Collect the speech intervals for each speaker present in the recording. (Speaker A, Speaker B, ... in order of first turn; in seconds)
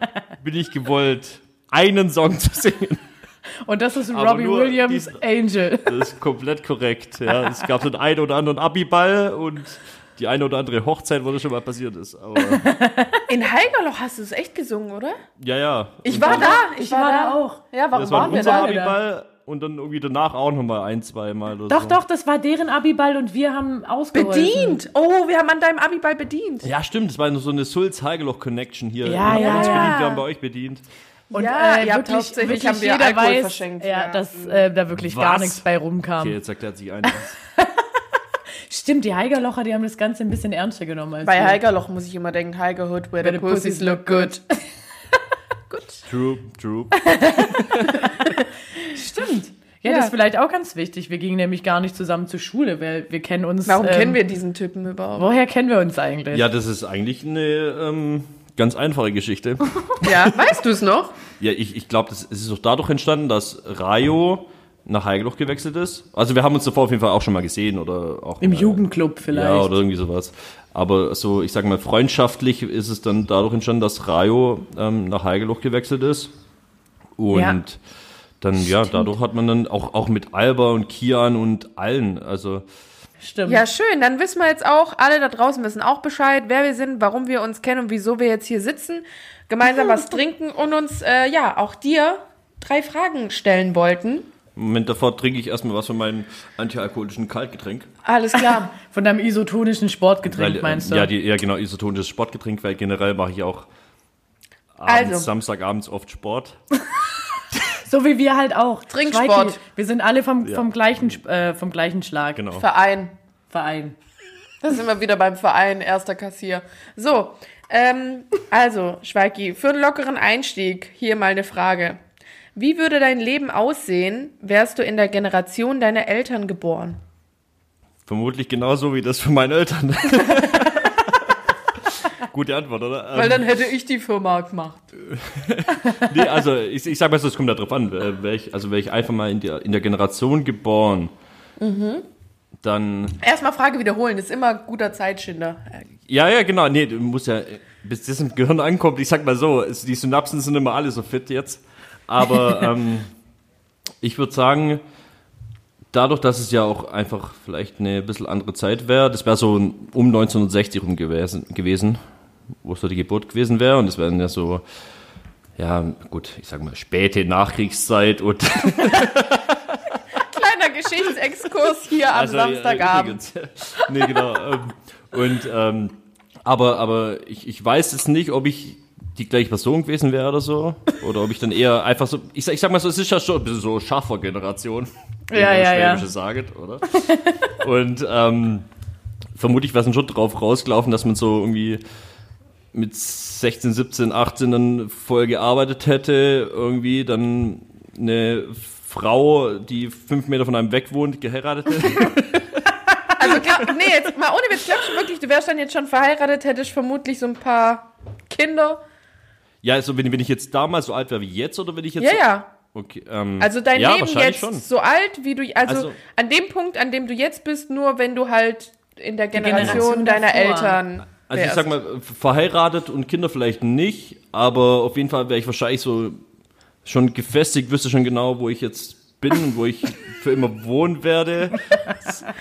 Speaker A: 0.4-3.0, 4.1-5.2, 5.8-12.6, 15.4-16.6, 17.9-22.0, 26.6-30.8, 34.9-35.6, 36.2-37.3, 46.1-47.9, 56.3-59.7, 61.4-76.3, 77.2-77.8, 78.4-82.6, 94.6-97.9, 100.3-103.7, 104.8-106.6, 112.4-112.7, 128.1-131.3, 131.9-133.5, 135.0-141.1, 142.6-143.2, 146.1-153.1, 154.0-154.8, 155.9-162.0, 162.6-164.6, 165.6-169.9, 172.1-188.7, 189.4-191.8, 192.7-203.7, 209.6-214.6, 215.7-215.9, 221.2-226.2, 226.8-232.3
Speaker B: 3.6-6.0, 12.4-13.2, 16.2-19.0, 21.7-24.8, 29.1-30.1, 31.3-36.4, 37.0-37.9, 38.7-41.6, 43.2-44.6, 47.0-49.3, 49.8-54.2, 55.2-56.5, 68.4-69.8, 77.3-77.6, 78.8-79.1, 83.2-83.6, 98.4-101.1, 107.8-112.4, 113.5-114.0, 185.3-186.1, 186.9-187.5, 219.3-220.8
Speaker C: 13.3-15.2, 16.0-18.7, 24.1-26.7, 29.3-30.2, 31.3-34.6, 41.2-44.4, 45.7-46.0, 47.9-48.3, 48.9-50.1, 53.6-55.3, 60.0-61.1, 83.5-94.3, 98.0-98.7, 104.9-105.3, 108.9-109.6, 112.6-113.1, 114.6-122.0, 122.5-127.0, 133.1-134.9, 141.6-142.1, 143.2-145.8, 170.2-173.2, 203.2-208.8, 212.0-212.5, 213.4-221.7